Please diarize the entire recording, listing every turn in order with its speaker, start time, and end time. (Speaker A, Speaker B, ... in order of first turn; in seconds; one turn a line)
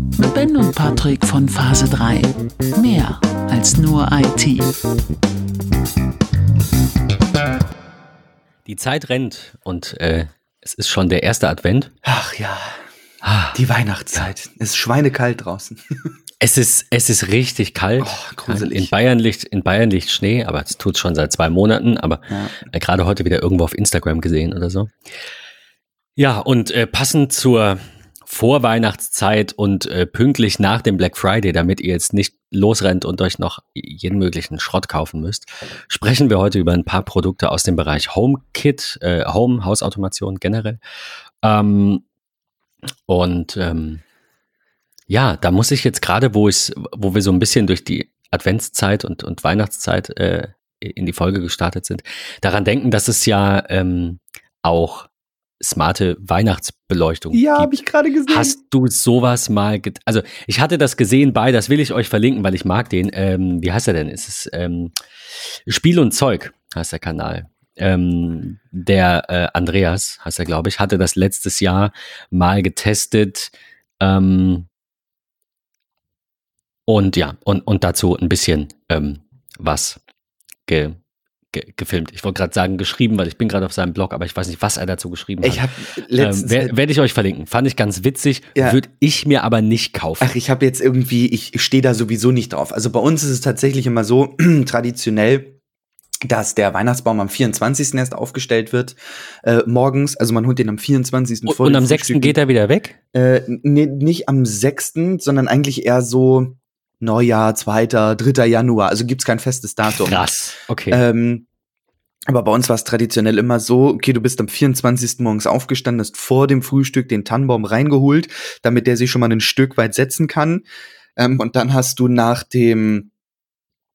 Speaker A: 0.2-4.8
Speaker B: 8.7-11.9
Speaker C: 12.0-12.8
Speaker B: 13.2-13.6
Speaker C: 13.5-15.8
Speaker B: 16.4-24.9
Speaker C: 18.0-18.9
Speaker C: 22.3-22.6
Speaker B: 26.2-40.8
Speaker B: 41.4-42.0
Speaker B: 43.1-44.0
Speaker B: 45.1-55.1
Speaker B: 55.6-57.7
Speaker C: 57.3-58.6
Speaker B: 58.3-64.9
Speaker B: 65.7-74.7
Speaker B: 76.9-80.0
Speaker B: 80.7-81.0
Speaker B: 81.5-85.7
Speaker C: 85.4-86.7
Speaker B: 86.2-90.3
Speaker C: 90.2-95.6
Speaker C: 96.3-102.4
Speaker B: 101.5-103.0
Speaker C: 103.1-110.2
Speaker B: 109.9-111.0
Speaker C: 110.9-111.5
Speaker C: 112.3-120.7
Speaker C: 121.2-123.1